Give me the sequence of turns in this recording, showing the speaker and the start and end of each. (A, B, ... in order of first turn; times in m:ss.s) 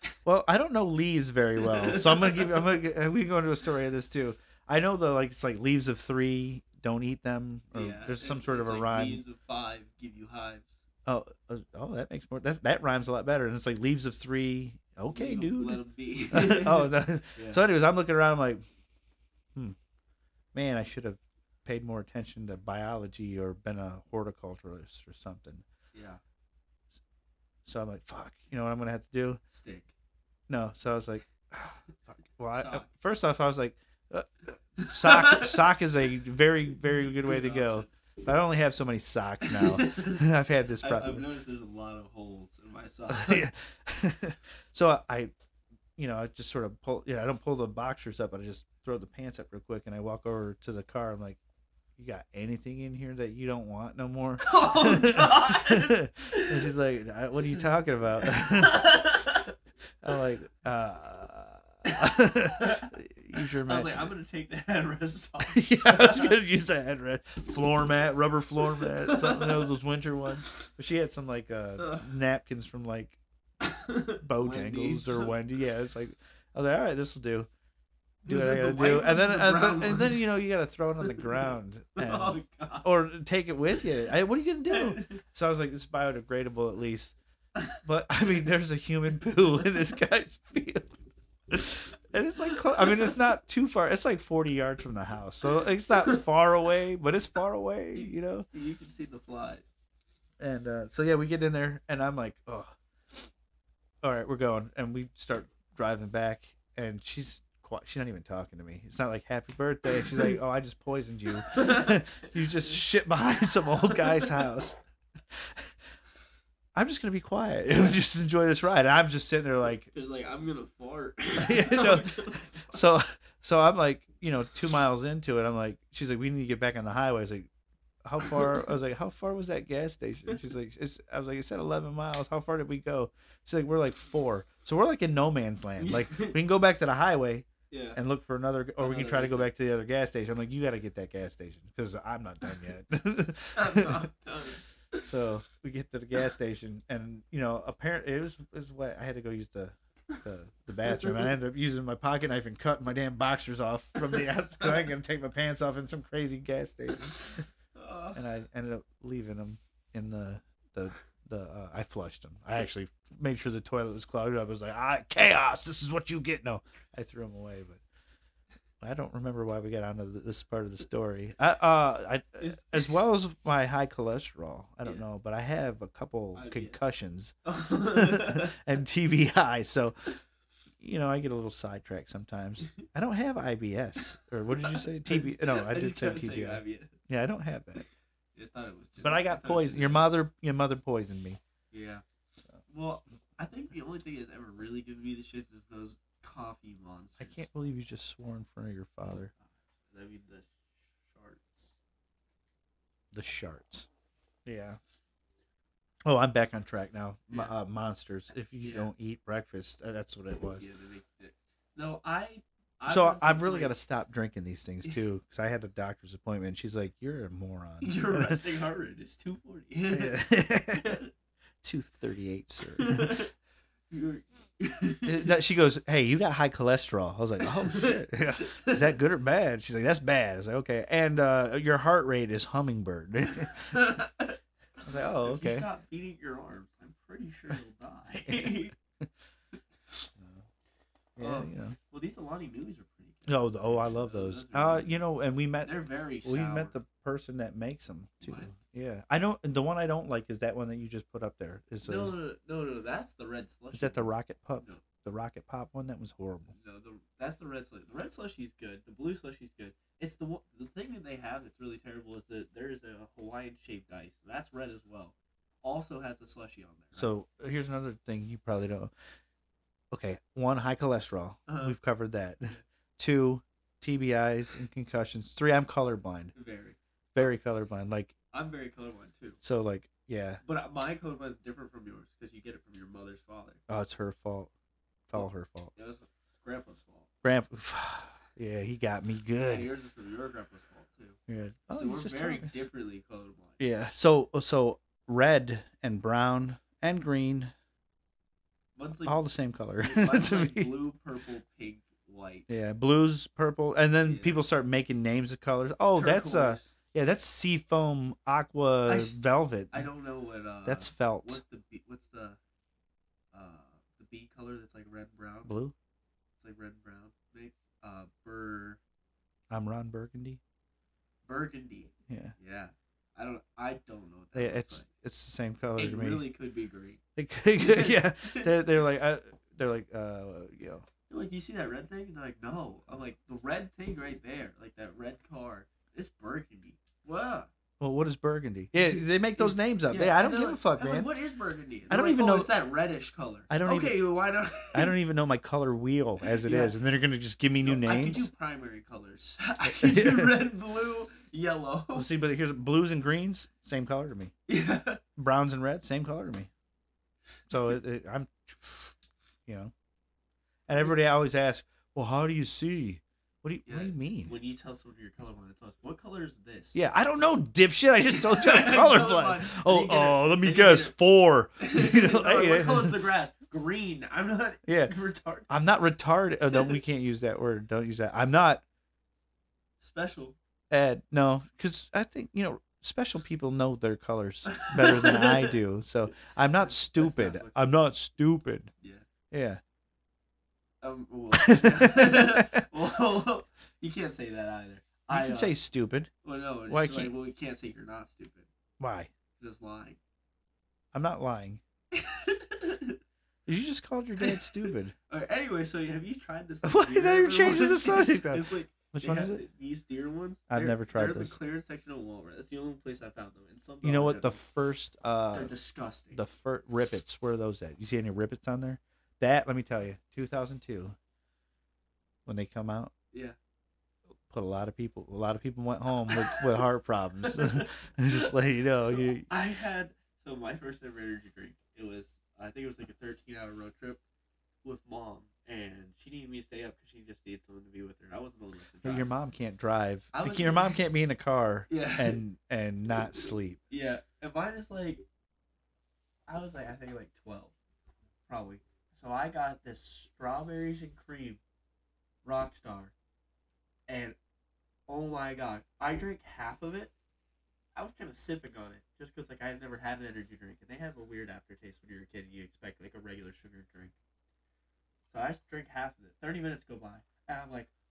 0:00.2-0:09.2 A
0:01.6-0:02.8 B
0:07.7-0:10.8 B
0:11.0-0:18.6 A
0:15.1-0:17.6 B
0:20.5-0:25.6 A
0:25.9-0:26.2 B
0:27.6-0:29.4 A
0:29.5-0:29.9 B
0:30.5-0:41.3 A
0:32.5-0:32.9 B
0:34.8-0:35.6 B
0:36.9-0:37.9 B
0:39.4-0:40.3 B
0:40.8-0:43.5 B
0:43.1-0:45.3 A
0:46.0-0:51.4 A
0:52.0-0:59.2 A
0:54.4-0:56.6 B
0:58.2-0:59.5 B
1:00.0-1:04.1 A
1:01.8-1:06.4 B
1:05.5-1:13.2 A
1:08.8-1:09.7 B
1:11.8-1:12.1 B
1:13.6-1:15.4 B
1:14.2-1:17.5 A
1:18.2-1:20.3 B
1:18.2-1:27.1 A
1:21.0-1:22.9 B
1:24.7-1:25.2 B
1:27.8-1:31.0 A
1:31.5-1:38.5 A
1:32.5-1:33.1 B
1:37.9-1:39.7 B
1:40.4-1:42.7 A
1:44.0-1:54.8 A
1:51.5-1:52.7 B
1:53.8-1:54.3 B
1:55.3-1:55.7 A
1:56.7-1:59.9 A
1:59.9-2:02.8 B
2:01.4-2:07.5 A
2:08.0-2:24.1 A
2:15.8-2:16.4 B
2:17.7-2:18.0 B
2:18.8-2:19.5 B
2:23.5-2:25.1 B
2:25.0-2:37.4 A
2:30.8-2:31.4 B
2:34.0-2:34.8 B
2:37.0-2:38.2 B
2:38.1-2:47.8 A
2:48.8-3:00.1 A
2:52.4-2:52.9 B
2:56.3-2:56.9 B
2:57.4-2:58.6 B
3:00.8-3:07.8 A
3:04.5-3:07.0 B
3:08.3-3:10.1 B
3:09.0-3:11.4 A
3:11.7-3:12.0 B
3:12.7-3:17.4 B
3:17.2-3:19.3 A
3:19.4-3:21.7 B
3:23.1-3:23.9 A
3:24.4-3:24.8 A
3:26.0-3:30.6 A
3:28.6-3:28.9 B
3:30.6-3:33.8 B
3:32.9-3:38.4 A
3:37.8-3:41.1 B
3:39.9-3:41.0 A
3:41.6-3:43.2 A
3:42.7-3:43.3 B
3:43.9-3:45.3 B
3:45.0-3:53.8 A
3:47.4-3:49.0 B
3:53.3-3:54.4 B
3:54.8-3:55.7 A
3:55.2-3:58.7 B
3:58.2-3:59.1 A
4:00.2-4:00.4 A
4:01.2-4:01.8 A
4:01.2-4:05.0 B
4:03.3-4:12.2 A
4:05.6-4:06.8 B
4:08.2-4:08.5 B
4:11.8-4:14.9 B
4:13.7-4:16.5 A
4:16.5-4:27.1 B
4:26.9-4:28.9 A
4:29.9-4:36.3 A
4:31.5-4:31.8 B
4:36.3-4:36.8 B
4:37.1-4:38.1 A
4:38.3-4:39.4 B
4:39.4-4:40.4 A
4:40.4-4:43.6 B
4:43.7-4:44.5 A
4:45.1-4:45.7 A
4:45.1-4:47.1 B
4:47.2-4:49.7 A
4:49.4-4:51.2 B
4:51.3-4:52.5 A
4:51.7-4:53.6 B
4:53.6-4:57.5 A
4:58.8-4:59.2 B
4:59.0-5:00.7 A
4:59.8-5:02.5 B
5:02.5-5:09.9 A
5:04.0-5:04.4 B
5:05.9-5:06.7 B
5:08.8-5:12.4 B
5:10.6-5:11.4 A
5:13.3-5:15.6 B
5:15.4-5:15.7 A
5:16.4-5:18.8 B
5:19.5-5:20.4 A
5:21.2-5:24.8 B
5:22.1-5:22.3 A
5:24.3-5:26.3 A
5:25.8-5:27.0 B
5:27.2-5:30.8 A
5:27.6-5:28.5 B
5:31.1-5:37.5 B
5:37.8-5:41.1 A
5:38.7-5:44.9 B
5:41.9-5:42.5 A
5:43.5-5:44.0 A
5:44.7-5:48.3 A
5:46.2-5:46.8 B
5:47.6-5:52.1 B
5:49.7-5:50.4 A
5:51.9-5:54.3 A
5:54.5-5:55.0 B
5:55.2-5:56.5 A
5:57.5-5:58.9 A
5:59.4-5:59.7 A
6:00.7-6:04.3 A
6:03.6-6:06.8 B
6:06.7-6:13.0 A
6:08.1-6:11.0 B
6:11.6-6:15.6 B
6:14.6-6:14.9 A
6:15.5-6:18.6 A
6:16.5-6:16.8 B
6:19.8-6:20.4 B
6:20.7-6:28.7 A
6:24.5-6:25.6 B
6:26.6-6:27.6 B
6:28.8-6:29.0 B
6:29.3-6:29.6 A
6:30.8-6:35.6 B
6:31.3-6:32.6 A
6:35.1-6:36.1 A
6:36.2-6:38.5 B
6:36.7-6:37.1 A
6:38.8-6:39.1 A
6:39.4-6:40.0 B
6:40.9-6:41.6 A
6:41.9-6:43.0 B
6:43.4-6:44.9 A
6:44.2-6:54.4 B
6:46.6-6:49.4 A
6:50.5-6:51.4 A
6:53.8-6:55.5 A
6:55.3-6:56.2 B
6:56.1-7:01.0 A
7:02.2-7:02.9 A
7:04.3-7:09.3 A
7:06.0-7:06.6 B
7:07.2-7:14.0 B
7:14.6-7:19.1 B
7:18.8-7:23.6 A
7:20.1-7:20.8 B
7:21.7-7:22.2 B
7:23.7-7:25.0 B
7:26.3-7:27.5 B
7:28.3-7:31.4 B
7:32.2-7:32.9 B
7:33.9-7:34.2 B
7:34.9-7:36.9 B
7:37.7-7:43.9 B
7:45.1-7:47.7 B